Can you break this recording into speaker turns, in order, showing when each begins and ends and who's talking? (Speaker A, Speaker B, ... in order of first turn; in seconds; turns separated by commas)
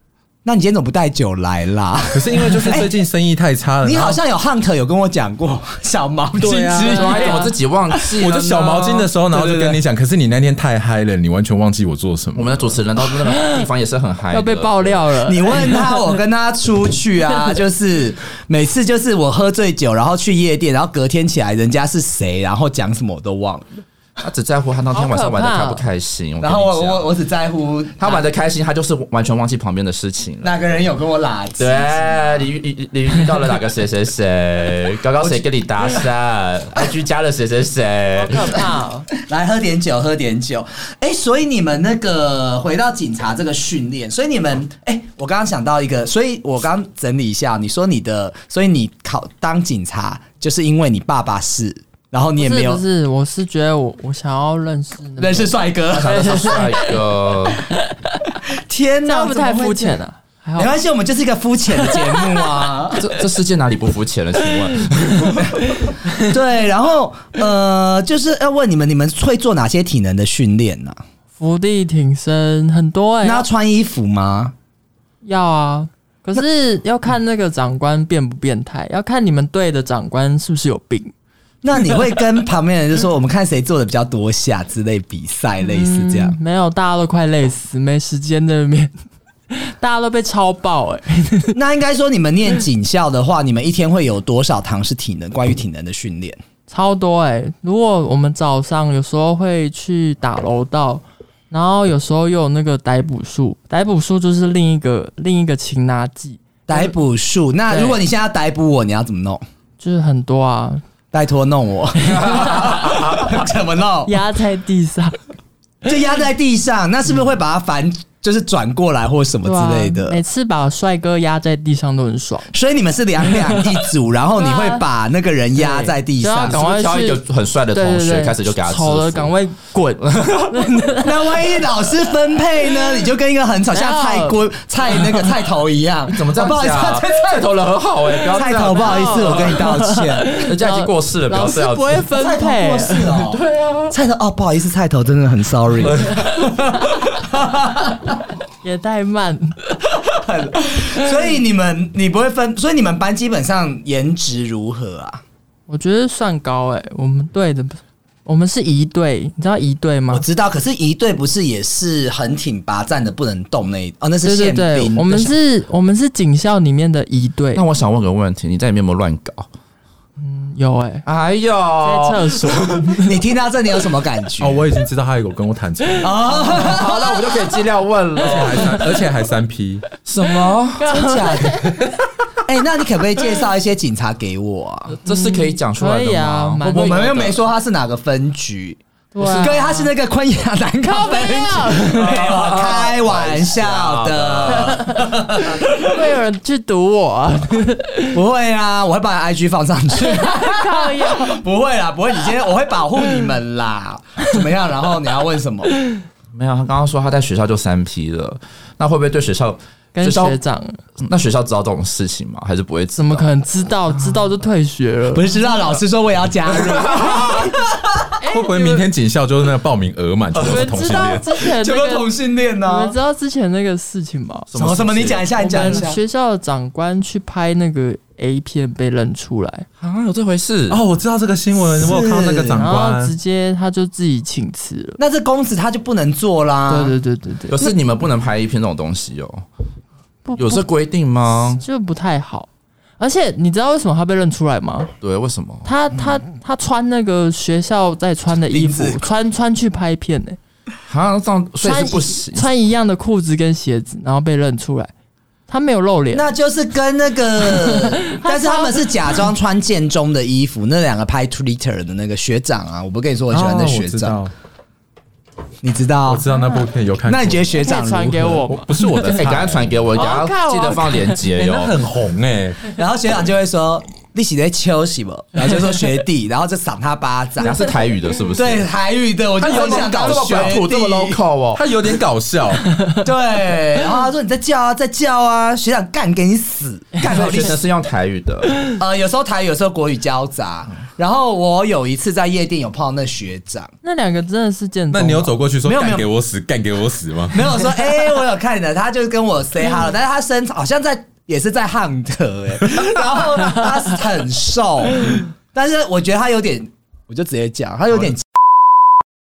Speaker A: 0.4-2.9, Speaker B: 2.1-4.2, Speaker A: 3.8-7.4, Speaker B: 6.4-7.0, Speaker C: 6.7-9.1, Speaker D: 6.8-7.5, Speaker B: 8.1-12.8, Speaker A: 9.3-9.8, Speaker C: 12.3-15.1, Speaker D: 13.4-13.6, Speaker D: 14.3-15.8, Speaker A: 15.2-23.8, Speaker C: 24.2-27.1, Speaker D: 24.9-25.8, Speaker A: 26.4-28.2, Speaker C: 28.0-30.6, Speaker A: 30.4-32.4, Speaker C: 31.6-38.6, Speaker D: 38.1-39.1, Speaker A: 39.2-52.8, Speaker D: 52.4-56.9, Speaker A: 55.2-56.6, Speaker C: 55.9-57.6, Speaker D: 57.7-58.3, Speaker A: 58.7-60.0, Speaker D: 59.0-60.7, Speaker A: 60.6-63.0, Speaker C: 63.0-65.5, Speaker A: 66.2-71.0, Speaker D: 71.4-73.5, Speaker A: 73.2-74.5, Speaker D: 75.2-81.1, Speaker A: 81.6-86.3, Speaker D: 85.7-88.9, Speaker D: 89.5-91.5, Speaker A: 91.5-96.4, Speaker D: 96.7-106.9, Speaker A: 106.7-109.4, Speaker D: 107.7-108.0, Speaker D: 109.8-110.8, Speaker A: 111.1-114.2, Speaker D: 112.1-112.7, Speaker C: 112.3-113.3, Speaker D: 114.0-115.2, Speaker A: 115.8-120.2, Speaker D: 119.4-122.5, Speaker A: 122.5-126.6, Speaker D: 124.4-124.8, Speaker D: 125.5-127.2, Speaker C: 126.5-129.3, Speaker D: 127.7-131.1, Speaker C: 130.0-130.5, Speaker A: 131.0-137.4, Speaker D: 133.7-134.4, Speaker C: 136.1-139.7, Speaker A: 138.3-140.3, Speaker D: 138.7-143.2, Speaker C: 140.3-142.1, Speaker A: 142.1-148.2, Speaker C: 143.3-143.9, Speaker C: 145.8-146.3, Speaker D: 148.6-149.6, Speaker A: 149.9-155.2, Speaker D: 155.7-160.2, Speaker A: 160.1-165.3, Speaker D: 164.2-167.6, Speaker C: 167.5-169.5, Speaker D: 170.2-171.0, Speaker C: 171.1-172.8, Speaker D: 171.8-173.1, Speaker A: 173.0-174.6, Speaker B: 174.4-176.5, Speaker A: 176.0-177.1, Speaker C: 176.5-178.9, Speaker B: 178.2-179.8, Speaker C: 180.1-180.9, Speaker D: 180.8-181.9, Speaker A: 180.9-181.5, Speaker A: 182.4-184.9, Speaker C: 184.9-187.4, Speaker D: 185.0-187.1, Speaker A: 186.7-196.0, Speaker D: 189.1-189.9, Speaker C: 189.2-189.5, Speaker D: 190.8-192.1, Speaker C: 192.0-194.8, Speaker D: 194.6-195.1, Speaker D: 195.8-198.1, Speaker A: 198.1-205.7, Speaker D: 200.0-201.4, Speaker C: 206.3-210.4, Speaker D: 209.9-210.8, Speaker C: 211.0-213.3, Speaker D: 213.0-215.3, Speaker A: 215.1-218.1, Speaker C: 216.5-217.4, Speaker D: 218.2-218.8, Speaker B: 218.3-221.3, Speaker D: 220.4-222.1, Speaker A: 221.4-222.9, Speaker D: 222.6-224.5, Speaker C: 224.5-225.8, Speaker A: 224.6-226.0, Speaker D: 225.4-229.7, Speaker C: 229.8-230.8, Speaker B: 230.7-233.1, Speaker A: 231.7-232.7, Speaker D: 232.6-235.0, Speaker A: 235.0-236.9, Speaker D: 236.7-237.7, Speaker C: 237.5-239.4, Speaker D: 240.2-240.6, Speaker C: 240.3-241.6, Speaker D: 241.6-242.5, Speaker D: 243.0-244.9, Speaker C: 245.0-245.7, Speaker D: 245.6-250.4, Speaker A: 248.5-249.0, Speaker C: 250.9-252.5, Speaker D: 251.6-254.9, Speaker D: 255.5-256.3, Speaker A: 256.1-264.2, Speaker D: 257.6-258.9, Speaker B: 263.3-264.3, Speaker A: 265.6-266.2, Speaker B: 266.1-267.6, Speaker A: 267.1-268.4, Speaker D: 267.6-269.2, Speaker B: 268.4-269.8, Speaker C: 269.1-271.8, Speaker D: 269.9-271.2, Speaker B: 271.3-272.6, Speaker A: 272.7-277.6, Speaker C: 277.4-278.7, Speaker A: 278.3-281.2, Speaker C: 279.4-281.6, Speaker B: 279.4-280.6, Speaker B: 281.5-282.6, Speaker A: 283.0-287.6, Speaker C: 287.0-288.7, Speaker A: 288.8-293.7, Speaker D: 293.8-295.4, Speaker B: 294.9-297.4, Speaker A: 295.6-296.1, Speaker A: 297.3-308.3